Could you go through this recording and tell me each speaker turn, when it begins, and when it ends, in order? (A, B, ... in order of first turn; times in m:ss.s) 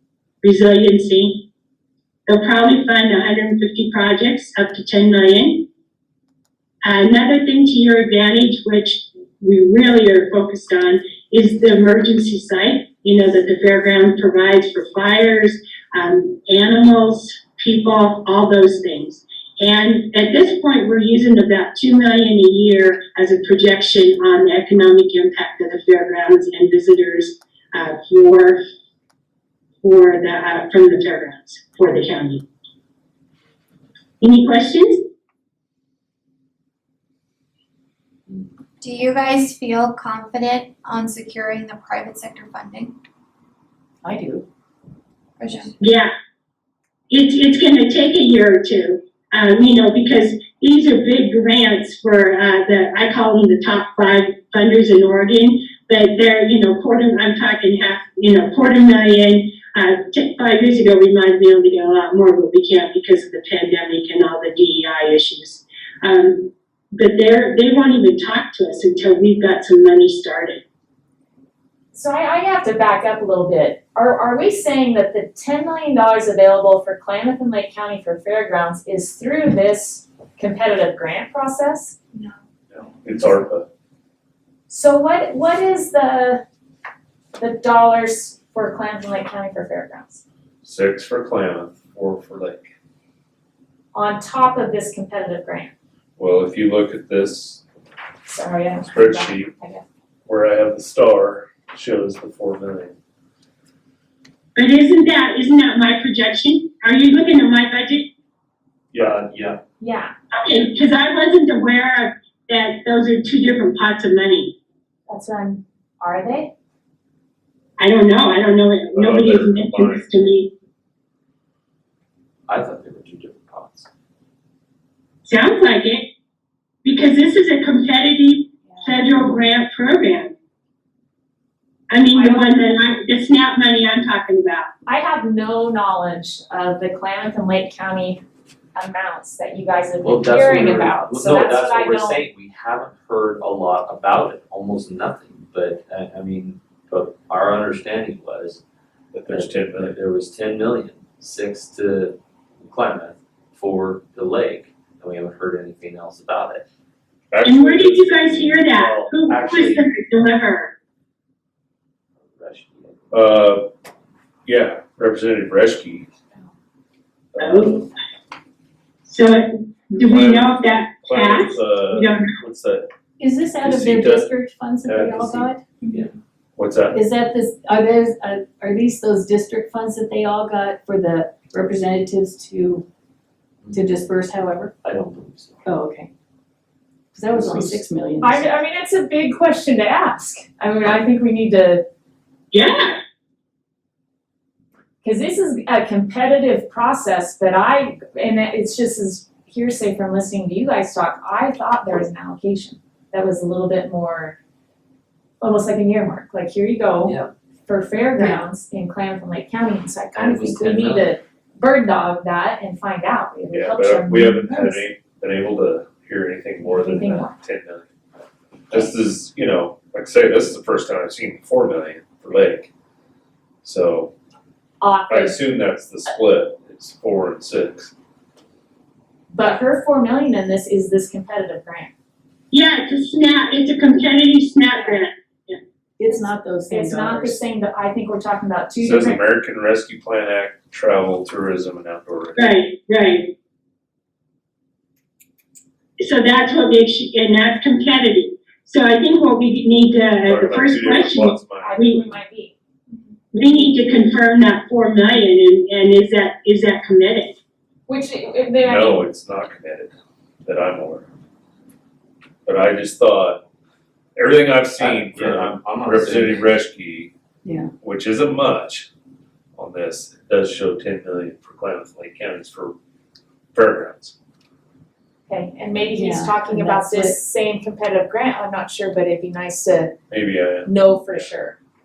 0:00.4-0:01.4 A
0:02.2-0:05.7 A
0:06.8-0:28.6 A
0:29.8-0:32.4 A
0:34.2-0:35.0 A
0:38.8-0:42.9 B
0:44.0-0:44.4 C
0:45.4-0:45.8 B
0:45.8-0:46.1 A
0:47.1-1:10.6 A
1:11.9-1:22.2 D
1:22.7-1:23.7 E
1:24.7-1:26.4 D
1:27.4-1:30.2 D
1:30.6-1:32.7 E
1:33.9-1:35.7 D
1:36.2-1:37.6 E
1:38.2-1:39.8 D
1:38.8-1:39.5 E
1:40.2-1:42.9 E
1:44.6-1:48.1 A
1:48.9-1:49.2 E
1:48.9-1:49.6 F
1:49.8-1:50.1 D
1:50.3-1:54.6 A
1:55.1-1:56.5 D
1:57.8-2:00.5 A
1:58.9-2:00.1 E
2:02.5-2:03.9 F
2:05.2-2:06.1 A
2:06.8-2:10.3 A
2:11.9-2:14.7 A
2:12.1-2:12.6 D
2:14.8-2:18.2 D
2:18.7-2:22.3 D
2:20.0-2:28.6 F
2:29.1-2:30.0 E
2:29.3-2:36.6 F
2:37.3-2:39.1 E
2:37.4-2:40.7 A
2:38.8-2:39.9 F
2:42.2-2:43.2 F
2:43.1-2:43.7 E
2:44.4-2:46.1 E
2:47.3-2:47.8 E
2:47.4-2:47.9 A
2:49.0-2:52.3 A
2:50.0-2:52.9 E
2:53.2-2:55.9 C
2:53.6-2:54.3 E
2:54.8-2:55.5 E
2:55.8-2:56.1 F
2:56.6-2:57.0 E
2:56.9-3:02.8 C
3:03.6-3:03.9 F
3:03.7-3:04.7 C
3:04.8-3:05.7 F
3:05.6-3:06.1 C
3:07.1-3:08.5 C
3:07.2-3:07.8 F
3:08.2-3:11.8 D
3:12.5-3:13.0 A
3:15.0-3:24.4 D
3:25.4-3:34.8 D
3:27.0-3:27.3 F
3:30.1-3:31.1 F
3:33.5-3:37.9 E
3:36.6-3:37.4 D
3:38.7-3:42.7 E
3:43.6-3:44.1 E
3:44.8-3:45.4 D
3:45.1-3:47.9 E
3:49.3-3:51.9 D
3:52.5-3:55.6 A
3:54.7-3:55.0 D
3:56.0-3:57.4 C
3:56.7-3:59.2 D
3:58.8-4:02.5 E
4:02.4-4:03.3 A
4:06.0-4:12.0 A
4:10.2-4:12.0 E
4:11.6-4:12.5 D
4:13.3-4:17.4 A
4:17.9-4:19.0 D
4:18.6-4:21.0 E
4:22.4-4:23.4 E
4:24.2-4:27.1 E
4:24.8-4:26.6 F
4:27.4-4:27.7 C
4:27.8-4:28.9 E
4:29.6-4:32.7 E
4:33.5-4:34.1 E
4:35.3-4:40.0 D
4:35.9-4:37.2 C
4:40.1-4:41.2 E
4:40.6-4:41.6 D